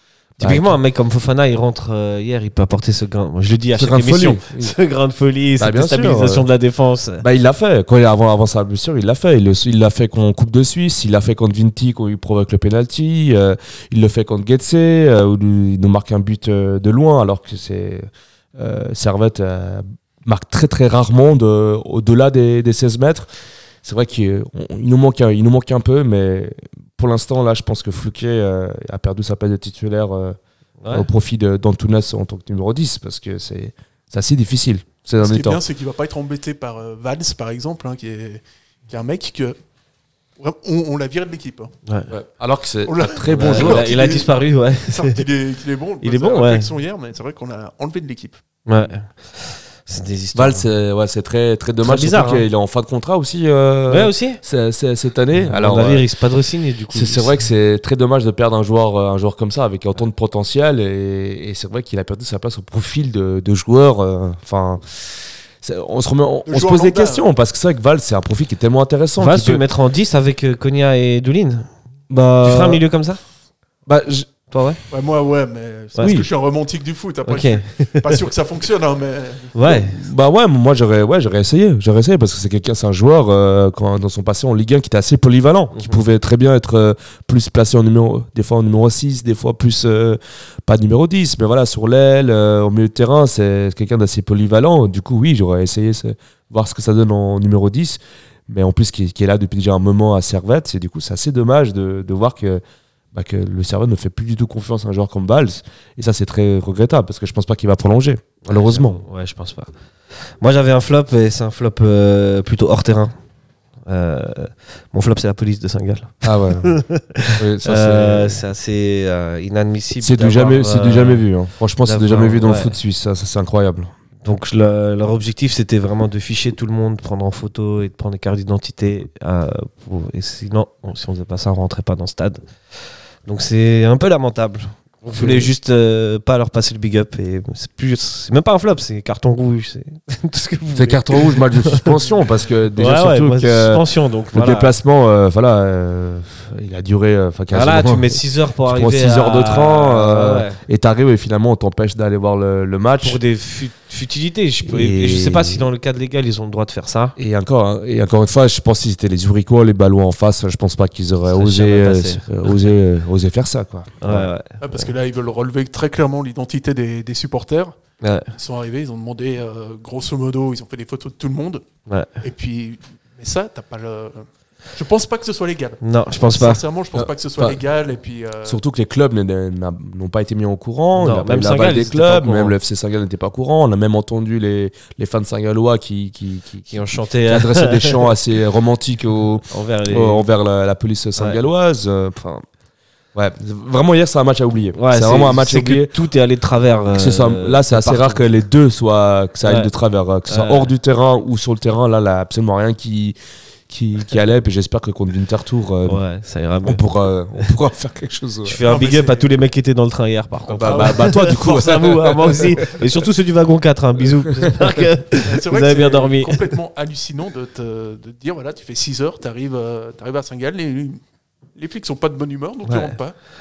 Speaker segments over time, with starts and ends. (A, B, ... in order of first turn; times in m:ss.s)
0:00.4-0:00.8 A
0:00.4-0:07.2 B
0:03.8-0:04.7 A
0:05.6-0:06.4 A
0:07.2-0:23.3 A
0:23.8-0:30.4 A
0:30.8-0:31.1 B
0:30.9-0:35.6 A
0:35.2-0:39.6 C
0:40.4-0:41.7 C
0:42.1-0:43.9 A
0:42.8-0:48.4 C
0:43.3-0:45.2 B
0:46.0-0:46.7 B
0:48.7-0:50.7 B
0:50.3-0:56.0 A
0:51.8-0:52.5 B
0:53.9-0:54.4 B
0:55.4-0:57.4 B
0:56.9-1:05.1 A
1:05.6-1:09.6 A
1:06.4-1:07.3 C
1:09.2-1:11.7 B
1:12.1-1:12.8 A
1:12.4-1:13.2 B
1:13.9-1:14.3 A
1:14.5-1:14.8 B
1:14.9-1:19.8 C
1:16.0-1:16.3 A
1:17.3-1:18.1 B
1:19.5-1:20.0 B
1:19.7-1:42.6 A
1:25.7-1:26.0 B
1:43.1-1:49.0 A
1:48.4-1:49.7 B
1:50.3-1:53.1 B
1:53.9-2:01.3 B
1:56.2-1:56.8 A
1:57.4-1:58.4 A
2:00.0-2:03.9 A
2:01.8-2:02.8 B
2:04.2-2:12.5 B
2:13.2-2:22.0 B
2:15.1-2:15.5 A
2:20.8-2:33.2 A
2:22.8-2:24.7 B
2:27.5-2:30.6 B
2:33.0-2:37.2 B
2:34.6-2:35.6 A
2:37.2-2:44.3 A
2:41.3-2:42.6 B
2:44.0-2:44.9 B
2:44.6-2:47.8 C
2:48.0-2:48.3 B
2:48.3-2:51.6 C
2:52.2-2:58.6 C
2:55.8-2:56.6 B
2:57.0-2:57.6 A
2:58.4-3:12.4 A
3:01.0-3:02.5 B
3:06.7-3:08.0 B
3:09.5-3:10.3 B
3:13.1-3:15.9 A
3:14.8-3:18.3 B
3:17.0-3:23.2 A
3:19.4-3:19.7 B
3:20.3-3:20.7 B
3:23.7-3:26.0 A
3:25.8-3:26.8 B
3:26.6-3:28.6 A
3:28.5-3:36.5 B
3:28.7-3:29.4 C
3:30.5-3:33.0 A
3:30.6-3:31.1 C
3:35.2-3:41.0 C
3:41.6-3:43.2 C
3:42.6-3:43.0 B